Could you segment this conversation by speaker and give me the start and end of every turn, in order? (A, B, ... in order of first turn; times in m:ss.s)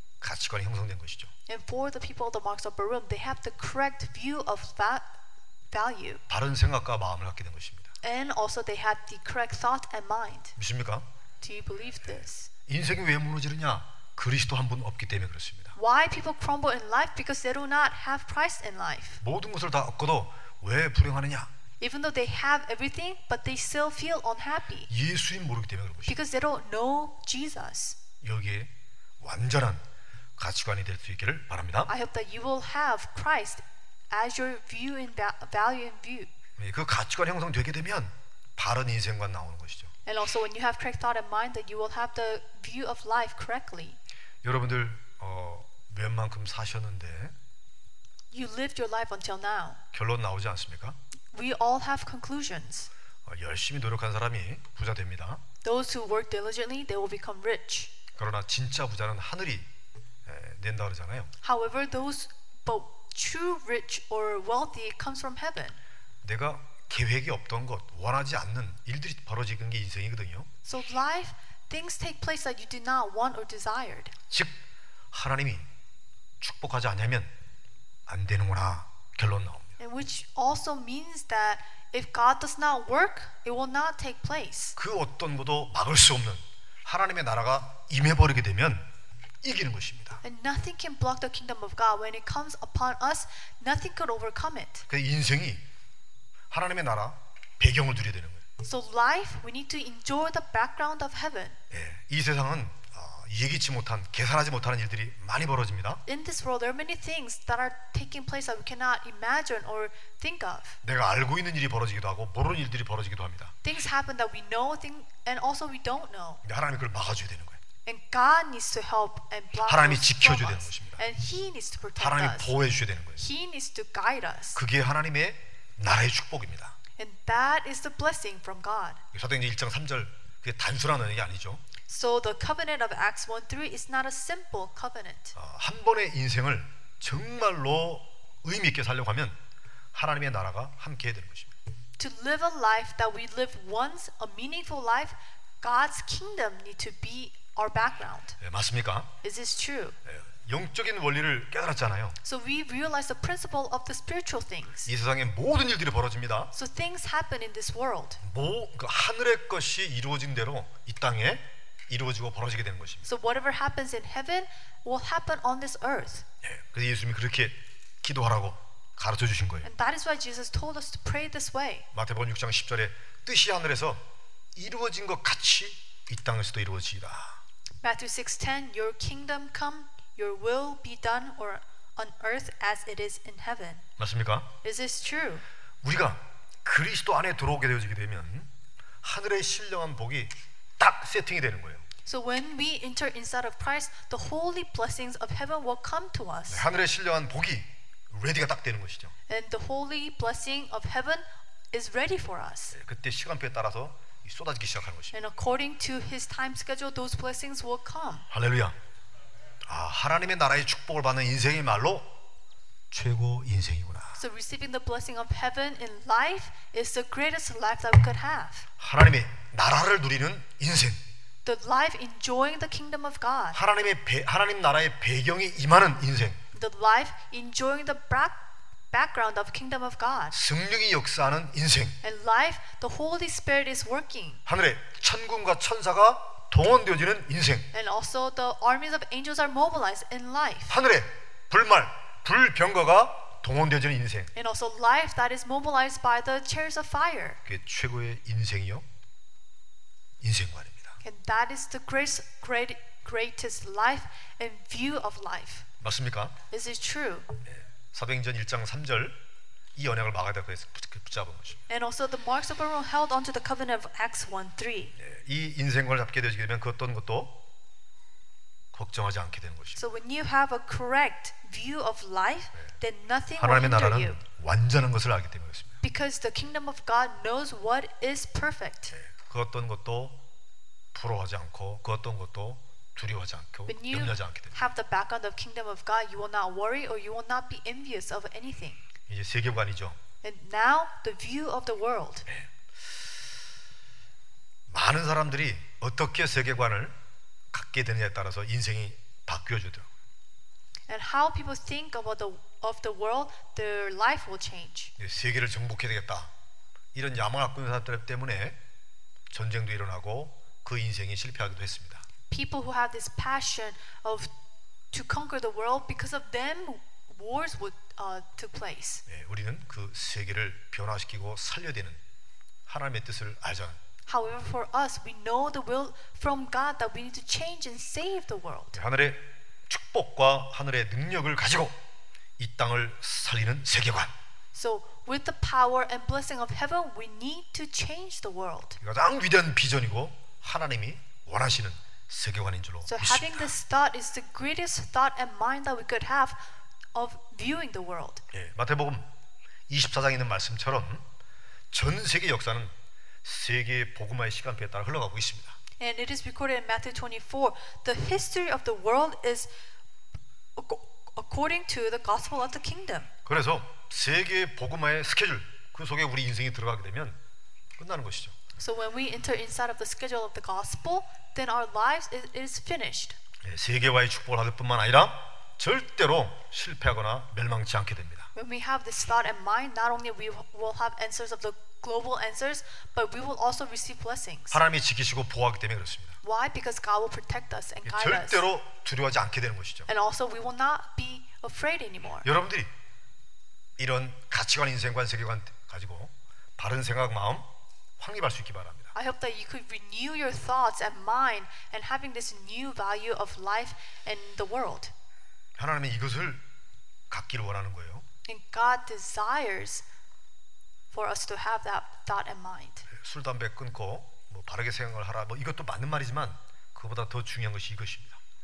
0:00.2-0:01.3 A
0:01.5-0:05.1 B
0:05.7-0:06.2 B
0:06.3-0:07.9 A
0:08.0-0:10.5 B
0:10.6-0:11.0 A
0:11.4-0:12.5 B
0:12.7-0:15.7 A
0:15.7-0:19.2 B
0:19.2-0:21.5 A
0:21.8-0:24.9 B
0:24.9-0:26.2 A
0:26.0-0:28.0 B
0:28.2-0:29.8 A
0:30.4-0:31.9 A
0:31.9-0:36.3 B
0:36.6-0:39.9 A
0:40.0-0:44.0 B
0:44.4-0:47.3 A
0:48.3-0:49.8 B
0:49.9-0:51.0 A
0:51.3-0:52.9 B
0:53.2-0:55.4 A
0:55.6-0:57.9 B
0:58.2-0:59.6 A
1:00.2-1:01.3 A
1:01.4-1:05.8 B
1:06.2-1:10.5 A
1:10.6-1:14.1 B
1:14.3-1:14.6 A
1:15.1-1:15.7 A
1:16.4-1:17.3 A
1:18.1-1:19.8 A
1:19.8-1:24.8 B
1:24.8-1:28.8 A
1:29.4-1:30.2 A
1:30.2-1:34.8 B
1:34.9-1:35.6 A
1:36.5-1:38.4 A
1:38.6-1:41.6 B
1:41.7-1:46.0 A
1:46.0-1:50.8 B
1:50.8-1:53.5 A
1:53.6-1:56.4 B
1:56.4-1:57.6 A
1:57.8-2:02.6 B
1:59.6-2:01.0 A
2:02.0-2:03.2 A
2:03.2-2:04.6 B
2:04.5-2:06.8 A
2:07.0-2:09.0 B
2:09.1-2:11.6 A
2:11.9-2:15.3 B
2:15.3-2:19.4 A
2:19.9-2:21.5 A
2:22.0-2:28.4 B
2:28.4-2:29.1 A
2:29.2-2:30.0 B
2:30.0-2:32.2 A
2:32.2-2:34.9 B
2:34.8-2:36.5 A
2:36.5-2:38.2 B
2:38.2-2:43.1 A
2:43.0-2:46.2 B
2:46.4-2:49.7 A
2:49.6-2:51.9 B
2:51.9-2:54.0 A
2:54.5-2:57.4 A
2:57.8-3:03.8 B
3:04.0-3:04.5 A
3:04.6-3:05.4 B
3:05.8-3:08.5 A
3:09.0-3:11.8 A
3:12.0-3:16.6 B
3:16.5-3:19.1 A
3:19.3-3:22.7 B
3:22.7-3:25.1 A
3:25.1-3:28.3 B
3:28.3-3:28.8 A
3:29.7-3:32.1 A
3:32.9-3:34.2 A
3:34.2-3:38.7 B
3:38.8-3:41.0 A
3:41.4-3:43.6 B
3:43.5-3:46.4 A
3:46.5-3:50.3 B
3:50.3-3:52.0 A
3:52.0-3:54.4 B
3:54.4-3:57.7 A
3:57.7-4:00.8 B
4:00.7-4:04.3 A
4:04.3-4:07.4 B
4:07.4-4:08.8 A
4:10.2-4:11.0 A
4:11.0-4:15.6 B
4:15.8-4:16.4 A
4:16.5-4:17.3 B
4:17.4-4:19.2 A
4:19.7-4:21.6 A
4:21.7-4:24.9 B
4:25.0-4:27.4 A
4:28.7-4:29.8 A
4:29.8-4:34.2 B
4:33.4-4:35.8 A
4:35.8-4:38.9 B
4:38.9-4:40.2 A
4:40.9-4:44.5 A
4:43.7-4:48.8 B
4:49.1-4:50.0 A
4:50.2-4:52.2 B
4:54.7-4:56.9 A
4:57.5-4:59.9 A
5:00.9-5:04.9 B
5:05.0-5:06.3 A
5:06.9-5:08.6 A
5:09.3-5:12.0 A
5:12.3-5:14.3 B
5:14.9-5:19.0 B
5:19.1-5:22.0 A
5:22.7-5:23.8 A
5:24.1-5:28.8 B
5:28.7-5:31.7 A
5:32.4-5:34.1 A
5:34.5-5:38.8 B
5:38.8-5:43.5 A
5:42.8-5:46.4 B
5:46.9-5:48.2 B
5:48.3-5:49.1 A
5:49.7-5:51.0 A
5:51.7-5:55.6 A
5:55.8-5:59.5 B
6:00.5-6:03.1 B
6:03.2-6:07.2 A
6:07.8-6:08.4 A
6:08.6-6:13.2 B
6:13.4-6:18.3 A
6:18.3-6:24.6 B
6:24.5-6:26.2 A
6:26.2-6:28.4 B
6:27.8-6:29.9 A
6:29.9-6:32.3 B
6:32.2-6:32.7 A
6:33.8-6:37.5 A
6:38.0-6:38.9 A
6:38.9-6:44.9 B
6:45.6-6:46.4 A
6:47.1-6:48.0 A
6:48.2-6:49.8 B
6:50.9-6:52.8 B
6:52.9-6:58.2 A